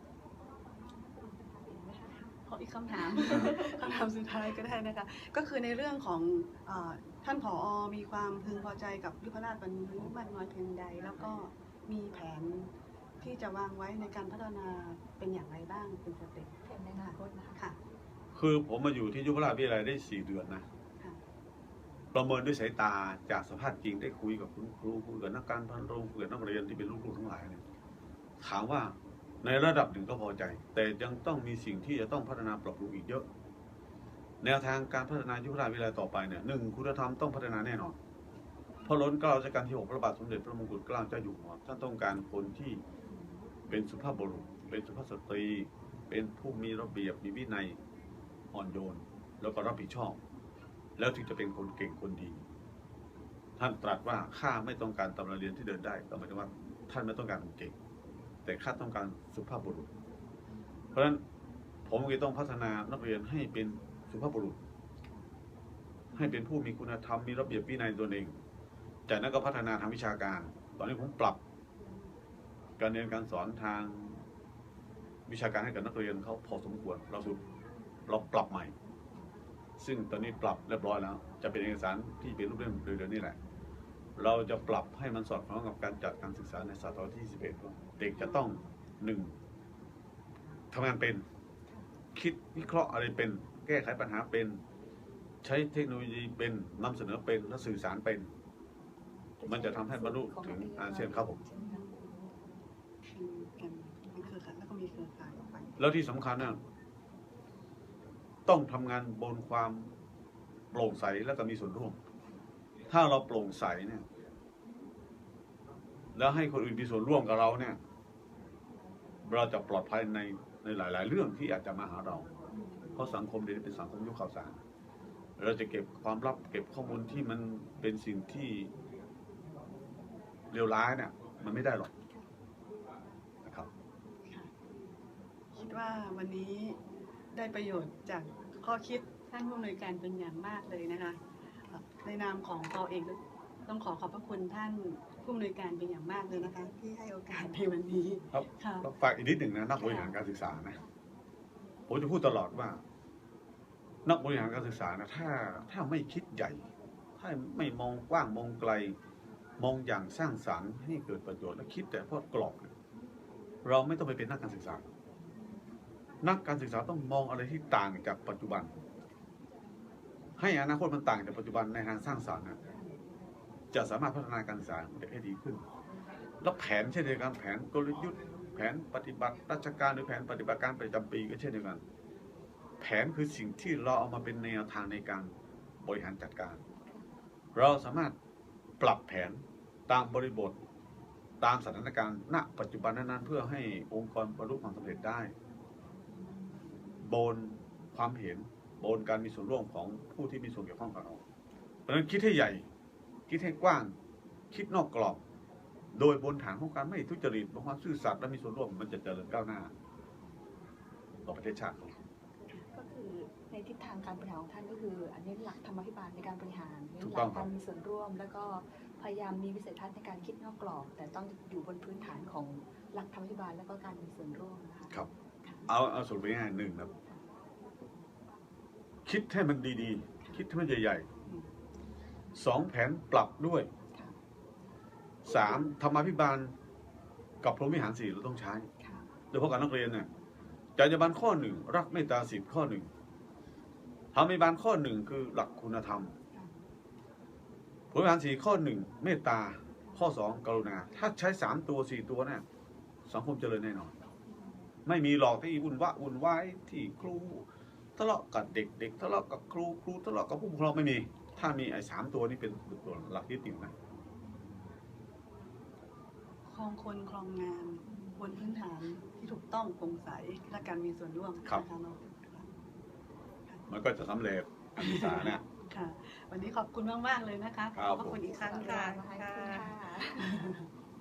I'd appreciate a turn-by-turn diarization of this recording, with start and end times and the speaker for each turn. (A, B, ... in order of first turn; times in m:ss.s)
0:01.1-0:02.1 A
0:02.4-0:17.8 B
0:03.3-0:03.6 A
0:16.6-0:17.6 A
0:18.3-0:20.6 C
0:22.1-0:27.6 C
0:28.4-0:33.2 C
0:34.4-0:38.0 C
0:38.8-0:42.8 C
0:43.7-0:47.8 C
0:48.5-0:50.2 C
0:51.0-0:52.4 C
0:53.6-0:57.8 C
0:58.4-0:59.9 C
1:00.9-1:01.2 C
1:01.9-1:04.6 C
1:06.1-1:08.4 C
1:09.1-1:11.4 C
1:12.8-1:14.2 C
1:15.3-1:17.4 C
1:18.1-1:18.7 C
1:19.8-1:23.4 C
1:24.2-1:29.4 C
1:30.7-1:31.2 C
1:32.1-1:34.6 C
1:35.4-1:38.3 C
1:39.4-1:41.8 A
1:39.4-1:41.4 C
1:41.6-1:42.2 B
1:43.1-1:45.8 B
1:45.8-1:46.6 C
1:48.4-1:49.9 C
1:50.7-1:52.0 C
1:52.9-1:54.0 C
1:56.1-1:57.8 C
1:59.2-2:02.3 C
2:02.9-2:04.6 C
2:05.4-2:08.7 C
2:10.5-2:11.9 C
2:14.2-2:14.5 B
2:15.5-2:16.8 B
2:17.3-2:28.9 B
2:28.3-2:30.8 C
2:31.9-2:32.8 C
2:34.0-2:36.7 C
2:37.2-2:39.0 C
2:39.6-2:42.7 C
2:43.6-2:44.8 C
2:46.2-2:48.7 C
2:50.4-2:52.6 C
2:53.7-2:55.6 C
2:56.4-3:01.8 C
3:02.8-3:06.6 C
3:07.6-3:08.2 C
3:08.8-3:10.6 C
3:11.4-3:15.3 C
3:17.0-3:21.2 C
3:21.9-3:22.7 C
3:23.3-3:23.9 C
3:24.5-3:25.2 C
3:25.9-3:29.7 C
3:31.2-3:31.9 C
3:32.7-3:45.7 A
3:37.0-3:37.5 C
3:45.7-3:46.9 C
3:49.0-3:51.1 C
3:52.3-3:53.7 C
3:55.2-3:56.5 C
3:57.4-3:58.7 C
3:58.8-3:59.1 A
3:59.3-4:00.1 C
4:00.8-4:02.9 C
4:04.1-4:06.2 C
4:07.9-4:12.4 C
4:13.1-4:13.9 C
4:14.8-4:17.4 C
4:18.0-4:23.7 C
4:26.5-4:32.5 B
4:33.7-4:35.4 C
4:34.8-4:40.6 B
4:37.7-4:38.2 C
4:38.1-4:40.5 A